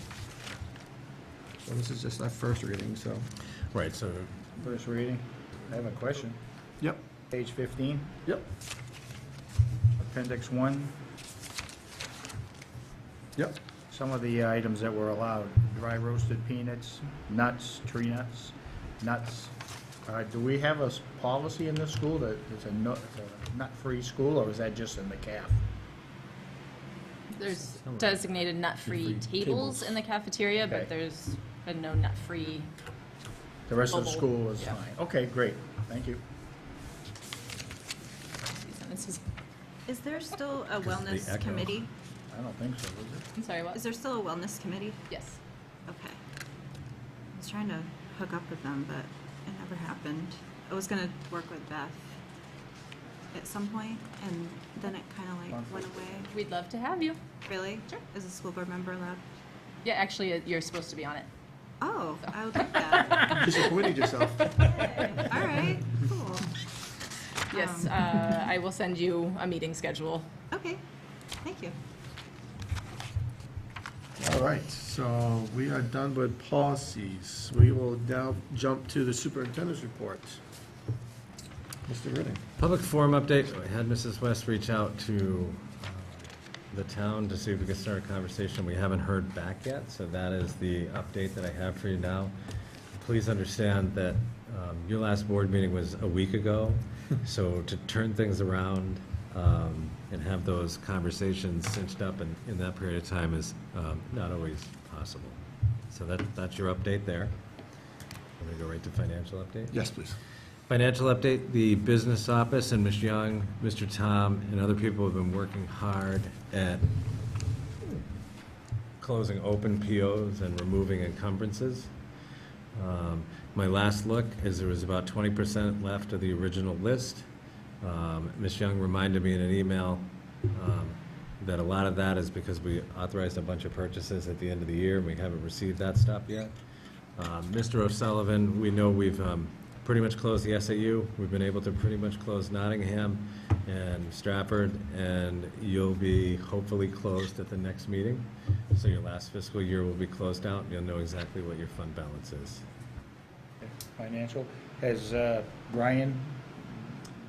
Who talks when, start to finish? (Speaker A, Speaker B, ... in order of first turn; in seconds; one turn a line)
Speaker A: 1.6-3.3
Speaker B: 3.7-4.4
Speaker C: 4.6-6.4
Speaker C: 7.3-8.2
Speaker C: 10.0-11.0
Speaker C: 13.9-19.5
Speaker C: 20.1-25.6
Speaker D: 27.3-32.7
Speaker A: 28.9-29.9
Speaker C: 30.6-30.9
Speaker C: 33.7-36.2
Speaker D: 33.9-34.8
Speaker D: 38.5-39.2
Speaker E: 39.9-41.9
Speaker B: 40.8-41.9
Speaker C: 42.3-43.3
Speaker D: 43.4-43.8
Speaker E: 43.7-45.0
Speaker D: 45.1-45.4
Speaker E: 45.9-46.2
Speaker E: 47.3-52.2
Speaker E: 53.3-56.3
Speaker C: 55.5-56.3
Speaker D: 56.3-57.2
Speaker E: 57.5-59.2
Speaker D: 59.9-61.3
Speaker E: 61.8-63.9
Speaker D: 62.2-63.6
Speaker A: 63.2-65.3
Speaker D: 64.6-65.1
Speaker E: 64.6-66.6
Speaker E: 67.5-68.3
Speaker D: 67.5-70.3
Speaker E: 70.5-70.8
Speaker E: 71.4-71.8
Speaker A: 74.2-80.4
Speaker A: 81.9-82.4
Speaker B: 82.6-92.3
Speaker B: 93.0-105.4
Speaker B: 105.9-107.3
Speaker B: 108.4-109.8
Speaker A: 109.7-110.2
Speaker B: 110.7-116.9
Speaker B: 119.0-121.9
Speaker B: 122.8-127.3
Speaker B: 127.8-136.5
Speaker B: 137.2-152.6
Speaker C: 153.6-157.0